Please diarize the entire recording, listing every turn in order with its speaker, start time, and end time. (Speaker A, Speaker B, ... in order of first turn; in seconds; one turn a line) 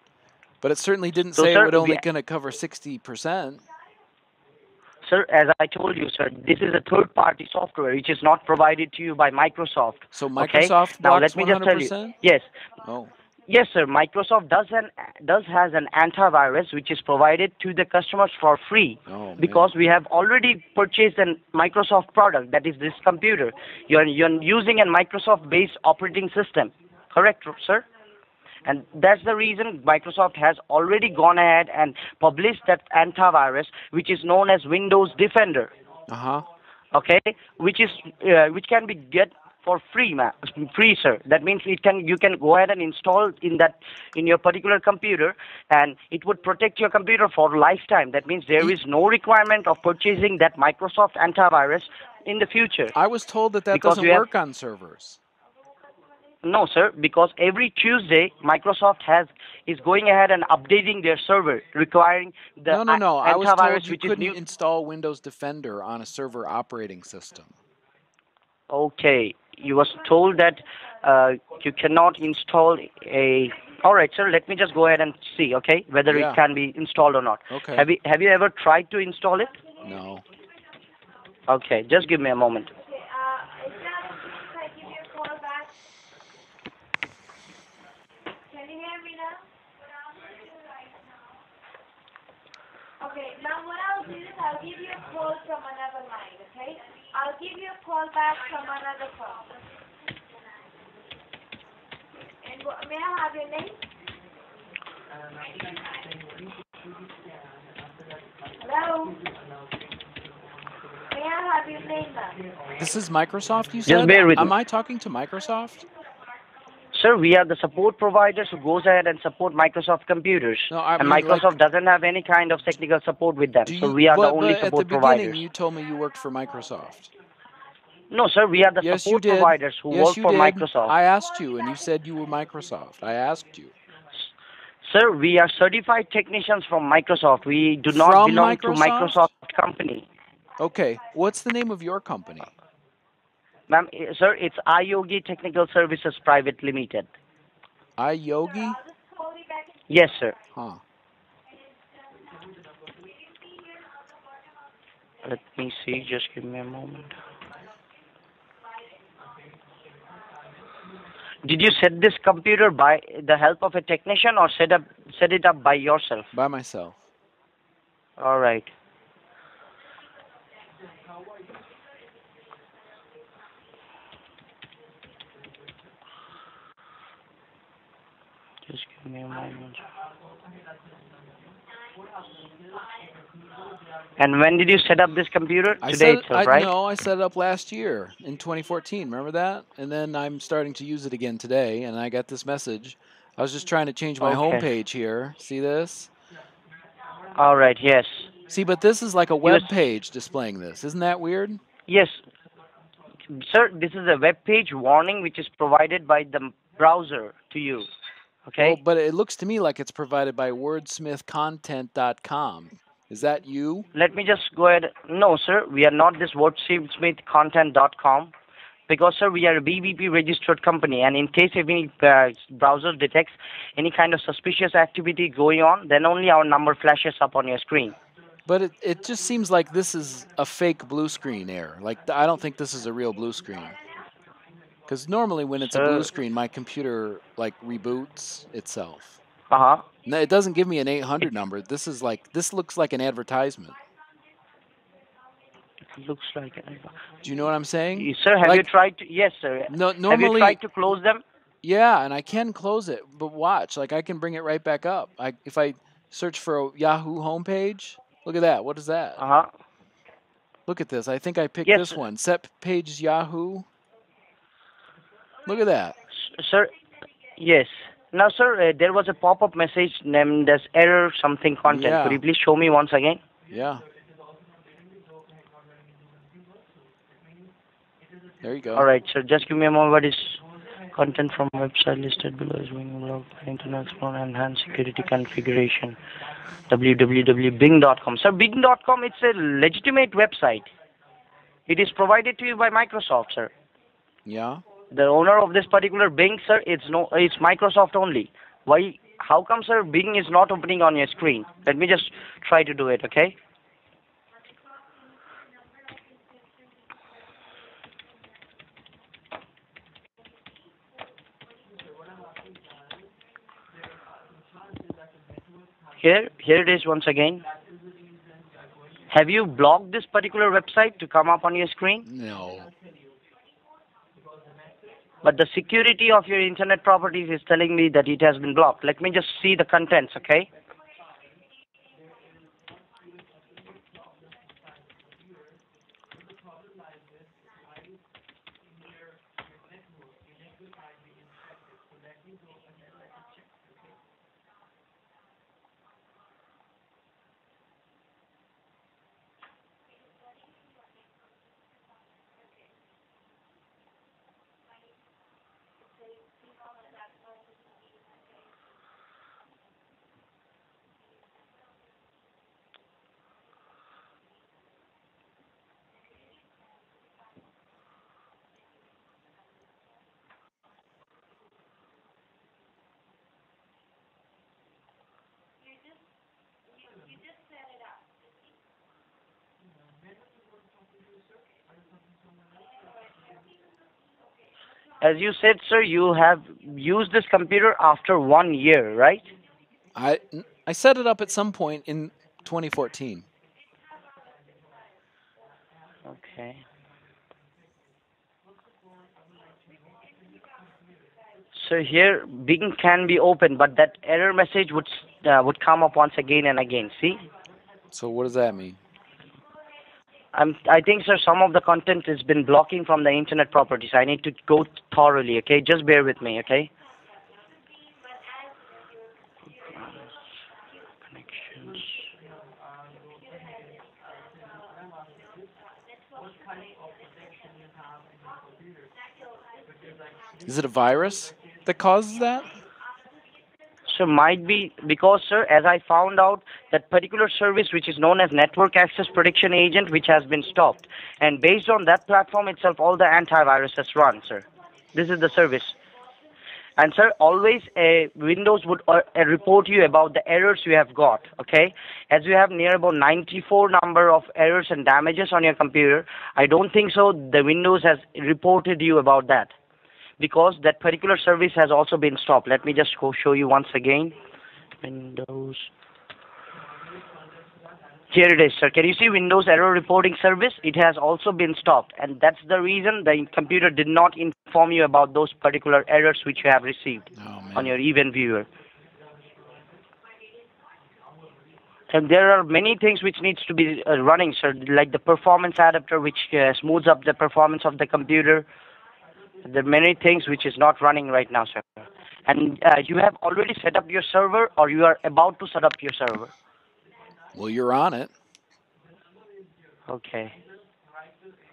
Speaker A: 0.6-3.6
Speaker B: 1.4-2.0
Speaker B: 5.0-12.4
Speaker A: 10.1-12.2
Speaker A: 12.8-13.1
Speaker B: 13.5-27.8
Speaker A: 19.1-19.7
Speaker B: 28.6-35.7
Speaker A: 36.1-36.4
Speaker B: 36.9-52.9
Speaker A: 52.9-55.2
Speaker B: 53.7-54.2
Speaker B: 56.4-64.4
Speaker A: 62.7-67.5
Speaker B: 68.7-79.6
Speaker A: 76.1-76.4
Speaker A: 77.5-77.8
Speaker A: 79.8-80.2
Speaker B: 81.5-82.7
Speaker C: 82.7-85.7
Speaker C: 88.5-89.4
Speaker C: 90.1-91.1
Speaker C: 93.0-99.5
Speaker C: 102.4-103.8
Speaker C: 108.6-109.2
Speaker C: 111.1-112.4
Speaker A: 112.8-115.8
Speaker B: 113.8-114.5
Speaker B: 116.9-125.4
Speaker A: 120.7-121.6
Speaker A: 123.7-127.1
Speaker B: 128.1-130.9
Speaker A: 128.8-133.7
Speaker B: 134.8-140.1
Speaker A: 137.9-139.3
Speaker A: 140.6-142.5
Speaker B: 143.7-147.1
Speaker A: 148.0-148.8
Speaker B: 149.9-150.3
Speaker A: 150.5-150.8
Speaker B: 155.2-157.1
Speaker B: 161.4-166.3
Speaker A: 166.3-167.0
Speaker B: 168.2-168.7
Speaker B: 178.7-179.8
Speaker B: 184.2-186.7
Speaker A: 185.8-196.1
Speaker B: 194.2-194.7
Speaker B: 197.3-198.3
Speaker A: 198.5-201.6
Speaker B: 199.4-199.7
Speaker B: 201.9-202.2
Speaker B: 203.3-207.9
Speaker B: 208.5-208.8
Speaker A: 208.6-213.9
Speaker B: 213.9-218.3
Speaker B: 218.9-227.9
Speaker A: 228.5-233.8
Speaker A: 234.9-239.2
Speaker B: 235.7-236.1
Speaker B: 239.5-239.8
Speaker A: 240.1-243.7
Speaker B: 245.9-246.9
Speaker A: 247.2-248.7
Speaker B: 247.9-251.2
Speaker A: 249.7-250.6
Speaker A: 251.6-259.2
Speaker B: 259.2-259.5
Speaker A: 260.7-263.6
Speaker B: 261.6-262.0
Speaker A: 265.4-265.9
Speaker B: 266.1-266.7
Speaker B: 267.4-273.2
Speaker A: 271.6-272.2
Speaker A: 273.5-273.8
Speaker A: 278.4-278.9
Speaker B: 278.8-280.4
Speaker B: 280.9-286.0
Speaker B: 286.7-290.7
Speaker B: 291.7-293.5
Speaker A: 294.2-294.6
Speaker B: 294.9-303.4
Speaker B: 316.0-317.4
Speaker B: 319.1-322.1
Speaker A: 322.0-322.7
Speaker B: 325.2-330.5
Speaker C: 356.6-357.1
Speaker B: 385.0-389.3
Speaker A: 389.9-393.2
Speaker B: 396.1-396.6
Speaker B: 401.5-407.2
Speaker A: 407.9-408.8
Speaker B: 410.3-416.7
Speaker B: 421.4-421.8
Speaker A: 430.4-432.5
Speaker B: 433.9-445.7
Speaker B: 446.8-459.5
Speaker B: 460.2-464.1
Speaker B: 464.8-465.7
Speaker B: 468.1-478.5
Speaker A: 477.1-477.7
Speaker B: 481.9-488.5
Speaker B: 489.4-496.3
Speaker A: 497.3-498.1
Speaker B: 499.9-500.3